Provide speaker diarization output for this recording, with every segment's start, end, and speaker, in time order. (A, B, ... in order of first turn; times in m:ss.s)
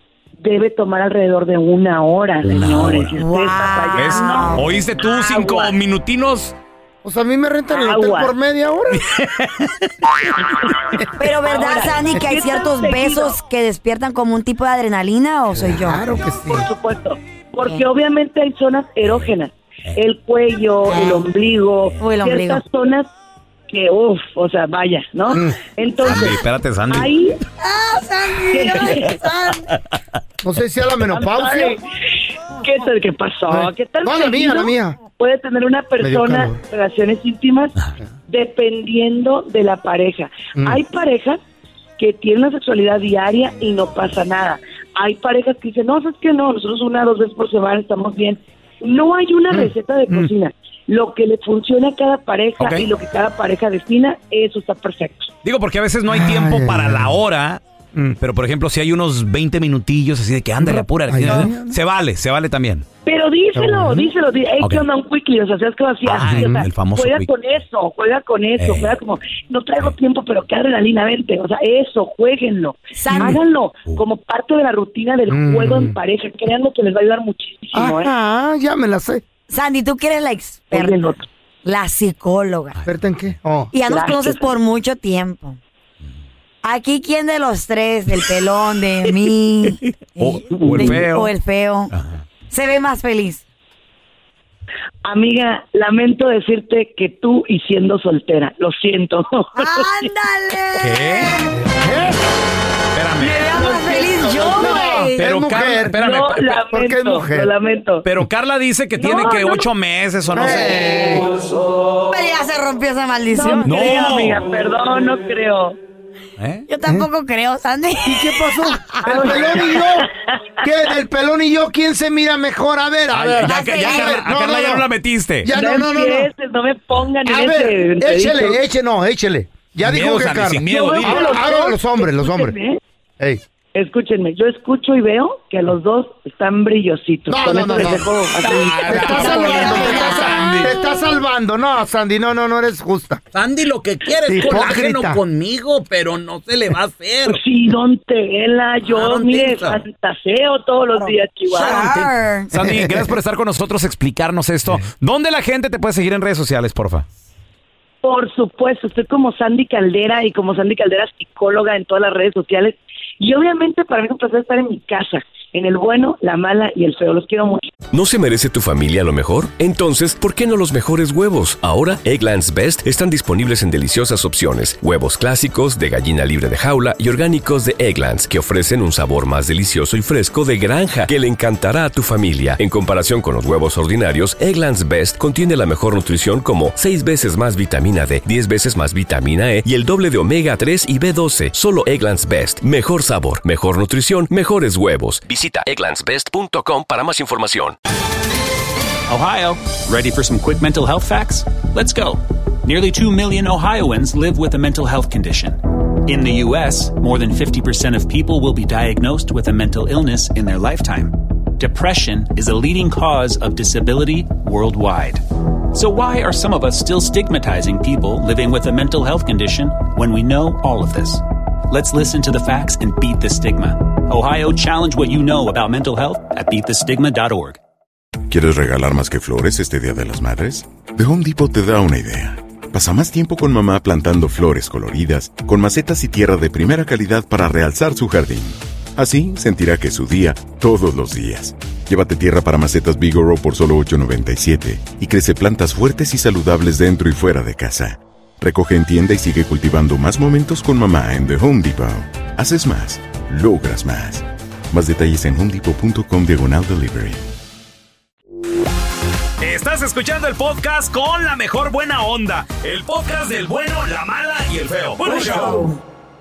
0:00.4-0:05.7 A
0:02.4-0:03.2 B
0:03.2-0:04.7 C
0:04.0-0:06.5 B
0:07.0-0:09.0 D
0:07.7-0:08.3 A
0:08.9-0:09.7 B
0:11.2-0:16.0 C
0:11.4-0:13.4 A
0:15.5-0:16.7 D
0:16.5-0:23.1 A
0:20.9-0:21.2 C
0:22.0-0:22.6 C
0:23.7-0:27.4 A
0:25.3-0:25.6 D
0:26.0-0:27.1 B
0:27.6-0:29.7 C
0:28.5-0:29.2 A
0:30.4-0:31.8 D
0:31.2-0:31.8 A
0:32.6-0:37.7 A
0:33.5-0:35.0 D
0:36.0-0:36.6 D
0:38.3-0:41.4 A
0:42.0-0:55.3 A
0:49.5-0:50.3 D
0:52.6-0:52.8 B
0:55.4-0:57.6 B
0:56.1-0:57.2 D
0:58.2-1:02.8 B
1:00.6-1:01.8 D
1:03.0-1:18.1 A
1:03.5-1:04.1 D
1:04.6-1:04.8 B
1:06.0-1:07.3 B
1:08.6-1:09.0 B
1:13.0-1:13.4 C
1:15.3-1:16.0 D
1:17.7-1:19.2 D
1:19.5-1:21.1 C
1:20.7-1:21.2 A
1:21.6-1:22.8 C
1:22.8-1:23.7 D
1:23.7-1:25.6 C
1:23.8-1:24.5 A
1:26.6-1:31.9 C
1:30.2-1:31.3 B
1:31.9-1:32.2 B
1:32.5-1:33.4 C
1:35.0-1:40.0 A
1:39.5-1:41.5 C
1:40.8-1:41.4 B
1:41.5-1:42.2 D
1:42.9-1:43.5 B
1:43.2-1:45.2 C
1:43.3-1:45.0 A
1:44.3-1:46.0 D
1:45.2-1:46.6 B
1:46.0-1:48.0 A
1:46.7-1:47.5 D
1:48.0-1:50.8 B
1:49.0-1:49.6 C
1:49.1-1:49.6 A
1:50.3-1:51.3 D
1:52.1-1:53.7 C
1:53.3-1:55.8 A
1:53.6-1:54.4 B
1:56.4-1:56.6 B
1:56.7-1:58.3 C
1:58.0-2:00.1 D
1:59.0-2:00.1 A
2:00.6-2:04.8 D
2:03.1-2:05.5 B
2:03.4-2:04.2 C
2:05.4-2:06.3 D
2:05.5-2:08.6 A
2:07.2-2:12.5 D
2:09.8-2:11.4 B
2:10.7-2:12.8 A
2:13.7-2:19.2 A
2:17.3-2:18.2 D
2:18.5-2:20.7 B
2:18.6-2:20.1 E
2:18.8-2:23.2 D
2:18.9-2:20.9 C
2:23.3-2:27.4 E
2:24.2-2:25.2 D
2:27.3-2:32.0 A
2:28.9-2:29.8 E
2:31.0-2:32.5 C
2:32.5-2:37.0 B
2:32.5-2:33.1 D
2:38.0-2:47.7 A
2:47.9-3:17.8 F
3:19.1-3:47.6 G
3:48.3-4:17.2 H
4:19.4-4:25.6 B
4:25.0-4:25.8 C